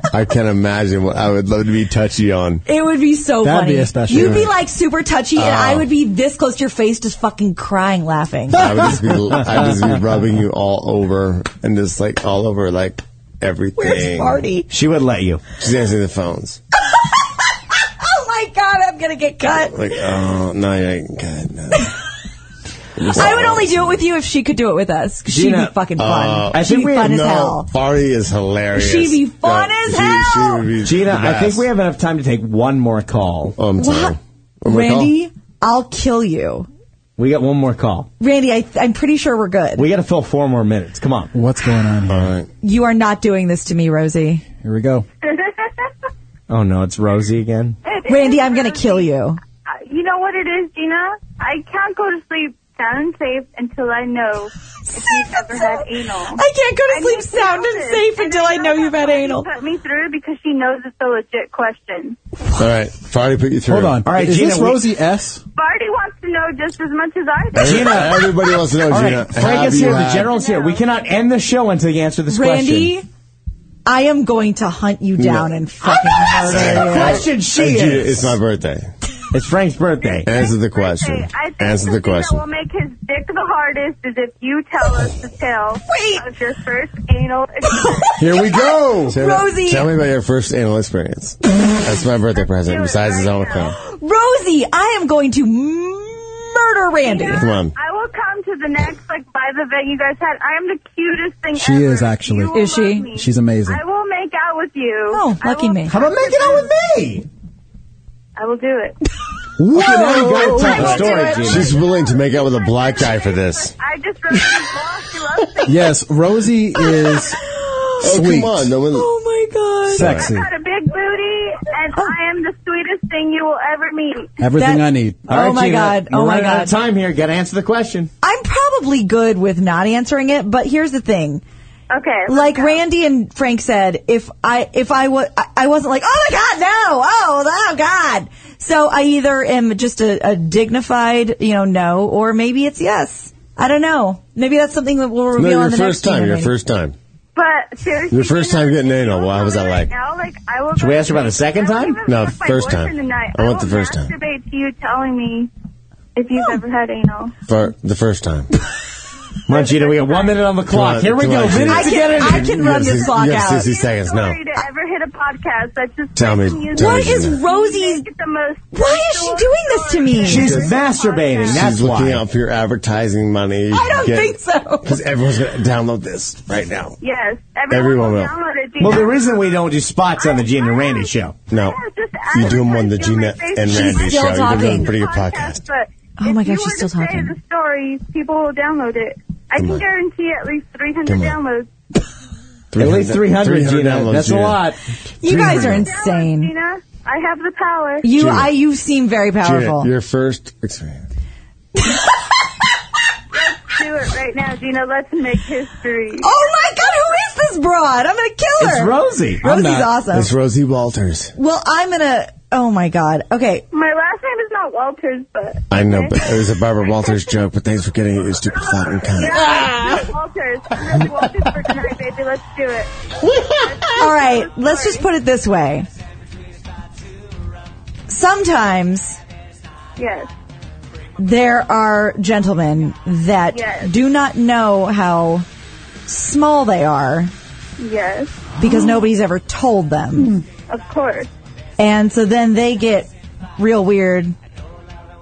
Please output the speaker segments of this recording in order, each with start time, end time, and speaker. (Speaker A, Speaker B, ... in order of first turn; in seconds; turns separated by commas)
Speaker A: 0.1-2.6, Speaker B: 2.7-8.7, Speaker C: 3.4-4.5, Speaker A: 4.1-4.4, Speaker A: 5.4-5.8, Speaker A: 8.5-14.4, Speaker B: 13.8-14.7, Speaker D: 14.7-15.4, Speaker A: 15.6-16.6, Speaker B: 17.9-19.9, Speaker A: 19.6-21.9, Speaker A: 23.0-24.0, Speaker B: 23.1-27.7, Speaker D: 25.3-25.7, Speaker A: 26.0-31.7, Speaker D: 26.5-27.2, Speaker B: 28.7-30.7, Speaker D: 30.8-33.5, Speaker A: 33.5-35.1, Speaker B: 33.8-36.7, Speaker D: 37.2-38.1, Speaker B: 38.2-39.9, Speaker D: 39.8-41.3, Speaker C: 41.3-42.3, Speaker A: 42.1-42.5, Speaker B: 42.6-44.4, Speaker C: 44.6-45.1, Speaker D: 46.5-47.8, Speaker E: 47.8-49.1, Speaker B: 48.1-49.4, Speaker E: 49.7-62.2, Speaker B: 54.9-59.5, Speaker A: 62.6-64.0, Speaker C: 63.7-65.4, Speaker D: 64.1-64.9, Speaker E: 65.6-68.5, Speaker A: 67.5-70.3, Speaker D: 67.5-68.3, Speaker D: 68.9-72.9, Speaker E: 70.3-70.9, Speaker B: 72.3-73.0, Speaker B: 73.9-77.3, Speaker A: 75.2-75.5, Speaker A: 76.4-78.9, Speaker D: 76.5-78.4, Speaker D: 79.3-80.3, Speaker E: 80.1-88.2, Speaker A: 80.3-82.5, Speaker B: 85.9-86.3, Speaker B: 87.6-89.9, Speaker C: 88.2-89.2, Speaker A: 89.1-93.8, Speaker E: 92.5-93.8, Speaker B: 93.6-97.5, Speaker E: 97.0-106.7, Speaker A: 97.4-97.7, Speaker C: 101.6-103.8, Speaker B: 102.5-103.1, Speaker B: 105.1-106.0, Speaker D: 105.9-107.3, Speaker E: 108.4-109.0, Speaker D: 109.6-111.7, Speaker B: 109.7-111.7, Speaker A: 110.7-113.7, Speaker E: 111.0-116.0, Speaker C: 115.7-117.4, Speaker B: 116.8-118.2, Speaker A: 118.0-119.1, Speaker C: 118.0-118.7, Speaker B: 118.9-120.2, Speaker C: 119.9-120.5, Speaker A: 120.0-120.3, Speaker E: 120.1-124.3, Speaker C: 124.4-125.3, Speaker B: 124.6-126.7, Speaker D: 125.3-128.1, Speaker B: 128.2-131.4, Speaker E: 131.9-132.8, Speaker B: 132.3-146.5, Speaker A: 145.3-147.0, Speaker E: 147.3-155.5, Speaker A: 148.1-149.9, Speaker D: 150.7-152.0, Speaker A: 152.1-154.1, Speaker E: 156.2-157.3, Speaker A: 157.5-158.5, Speaker E: 159.5-160.5, Speaker D: 159.5-162.6, Speaker A: 160.7-164.4, Speaker B: 161.7-163.7, Speaker E: 162.8-171.6, Speaker A: 166.2-167.4, Speaker B: 166.7-168.1, Speaker B: 168.7-170.6, Speaker D: 170.2-172.2, Speaker A: 171.5-177.0, Speaker B: 173.7-175.0, Speaker E: 177.0-179.7, Speaker A: 177.7-178.3, Speaker D: 178.8-181.4, Speaker E: 180.2-191.7, Speaker A: 181.5-181.8, Speaker A: 182.3-185.6, Speaker B: 183.7-184.9, Speaker B: 186.2-187.3, Speaker A: 189.6-189.8, Speaker A: 191.1-191.4, Speaker A: 192.7-194.6, Speaker D: 192.8-195.8, Speaker B: 195.2-196.5, Speaker E: 195.5-198.1, Speaker B: 198.0-199.9, Speaker A: 198.1-198.5, Speaker A: 199.4-201.1, Speaker E: 203.3-206.3, Speaker B: 206.2-210.3, Speaker D: 208.6-209.4, Speaker C: 209.4-209.9, Speaker A: 210.1-211.3, Speaker B: 211.4-213.7, Speaker E: 213.7-216.4, Speaker A: 215.7-219.7, Speaker E: 219.1-222.9, Speaker E: 223.6-225.1, Speaker B: 224.0-225.9, Speaker B: 228.1-229.2, Speaker E: 230.0-230.3, Speaker B: 231.2-235.5, Speaker E: 233.5-233.9, Speaker B: 236.1-237.3, Speaker E: 237.8-238.7, Speaker B: 238.6-240.4, Speaker E: 240.7-241.3, Speaker B: 241.8-244.3